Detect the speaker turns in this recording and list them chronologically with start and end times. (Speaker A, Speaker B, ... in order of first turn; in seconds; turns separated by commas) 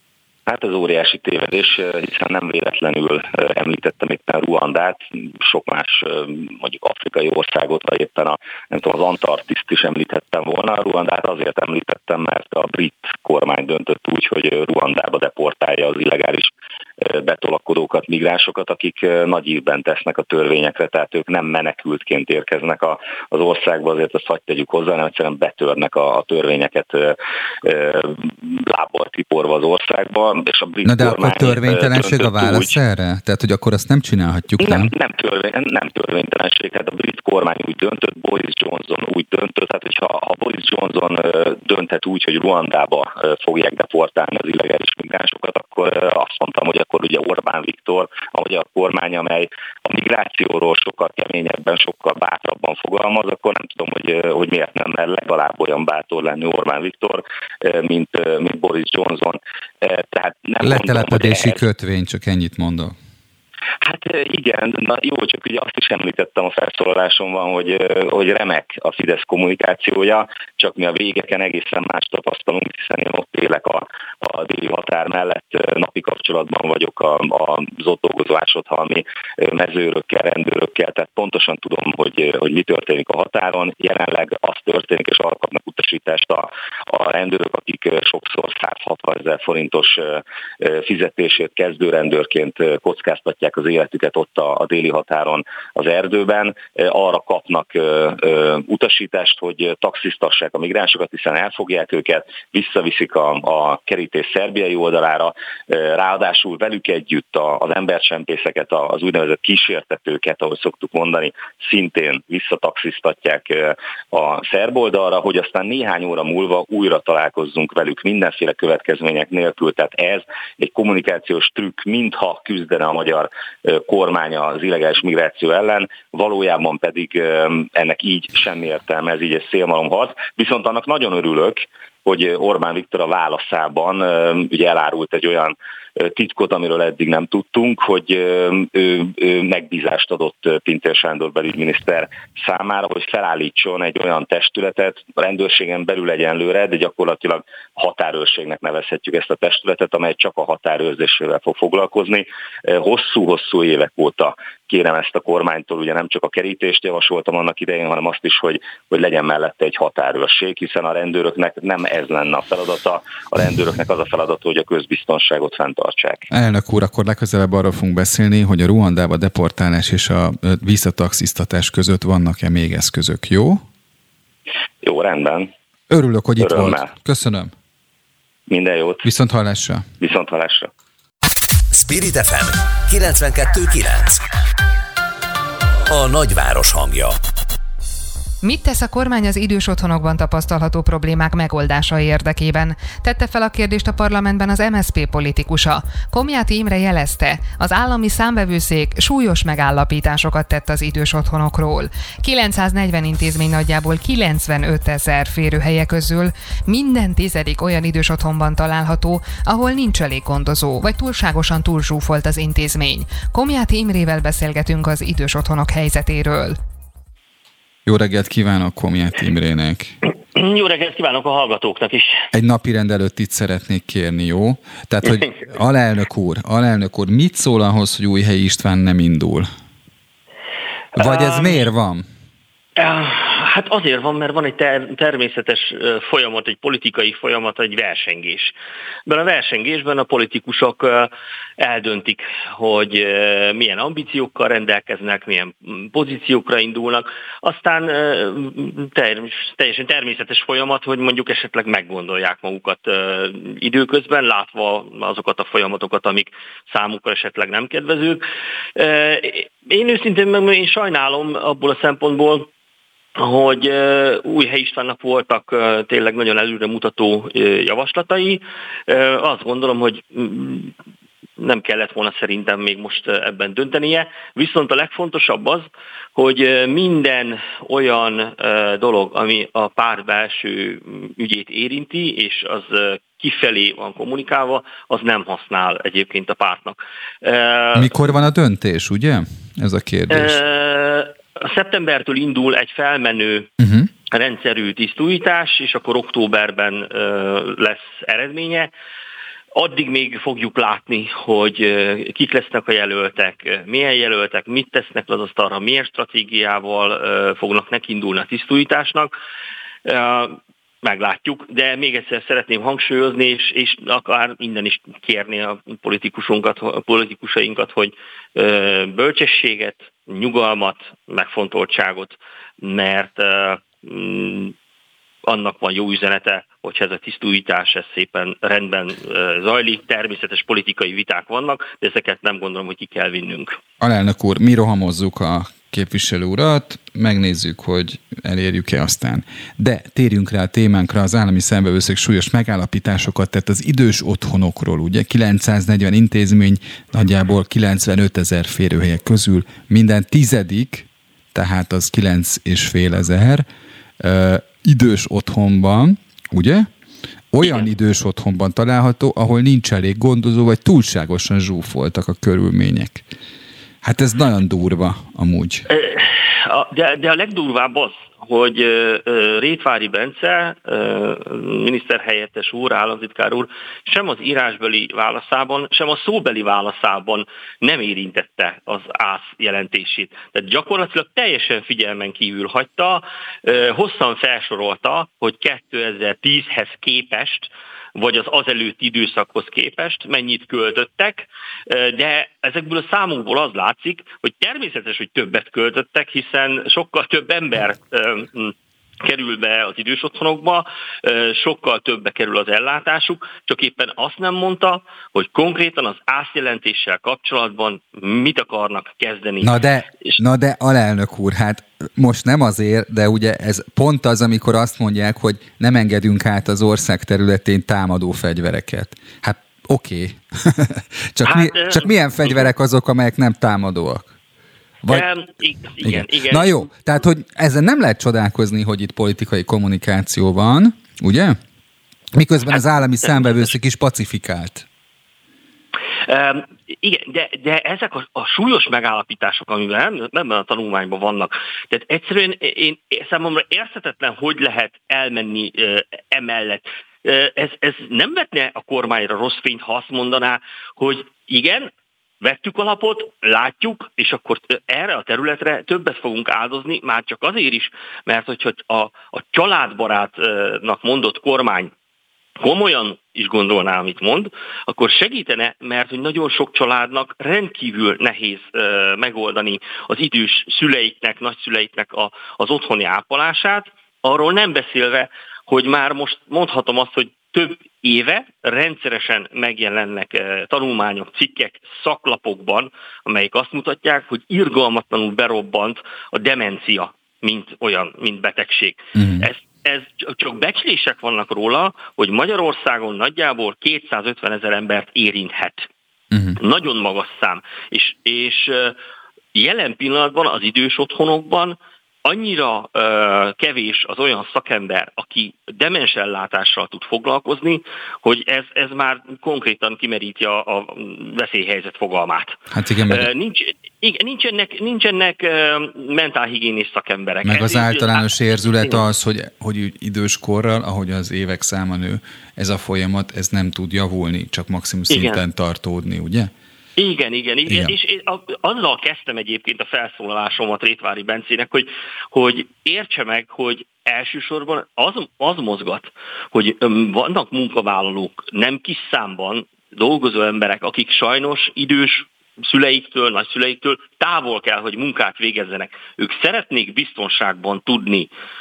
Speaker A: 0.5-32.8, Speaker B: 30.9-34.9, Speaker A: 34.6-61.6, Speaker B: 60.6-63.0, Speaker A: 63.8-166.3, Speaker B: 166.3-173.6, Speaker A: 174.8-175.5, Speaker B: 175.9-177.5, Speaker A: 176.4-176.9, Speaker A: 178.5-179.1, Speaker B: 179.0-179.8, Speaker A: 180.0-180.7, Speaker C: 181.7-184.2, Speaker C: 185.9-187.2, Speaker D: 188.4-216.6, Speaker B: 217.9-220.0, Speaker E: 220.3-222.2, Speaker B: 222.3-229.5, Speaker B: 231.0-232.1, Speaker E: 231.0-231.7, Speaker E: 232.8-238.6, Speaker E: 239.1-258.2, Speaker E: 258.8-262.5, Speaker E: 263.2-270.7, Speaker E: 271.4-288.1, Speaker B: 287.8-290.4, Speaker E: 290.1-293.5, Speaker B: 293.6-293.9, Speaker E: 294.1-298.7, Speaker E: 299.6-309.1, Speaker E: 309.9-324.6, Speaker E: 325.3-333.6, Speaker B: 333.8-353.5, Speaker B: 354.0-356.7, Speaker B: 357.3-363.1, Speaker B: 363.8-365.6, Speaker E: 365.7-409.5, Speaker B: 409.4-424.1, Speaker E: 421.2-422.5, Speaker E: 424.8-426.7, Speaker B: 425.8-431.4, Speaker B: 432.1-434.7, Speaker E: 432.5-433.5, Speaker E: 436.1-461.7, Speaker E: 462.4-495.7, Speaker B: 489.0-489.3, Speaker B: 496.1-496.4, Speaker E: 496.4-498.8, Speaker E: 499.4-512.4, Speaker B: 512.5-513.1, Speaker E: 512.9-518.9, Speaker B: 517.2-526.3, Speaker E: 524.9-525.2, Speaker E: 526.8-548.1, Speaker B: 527.5-527.7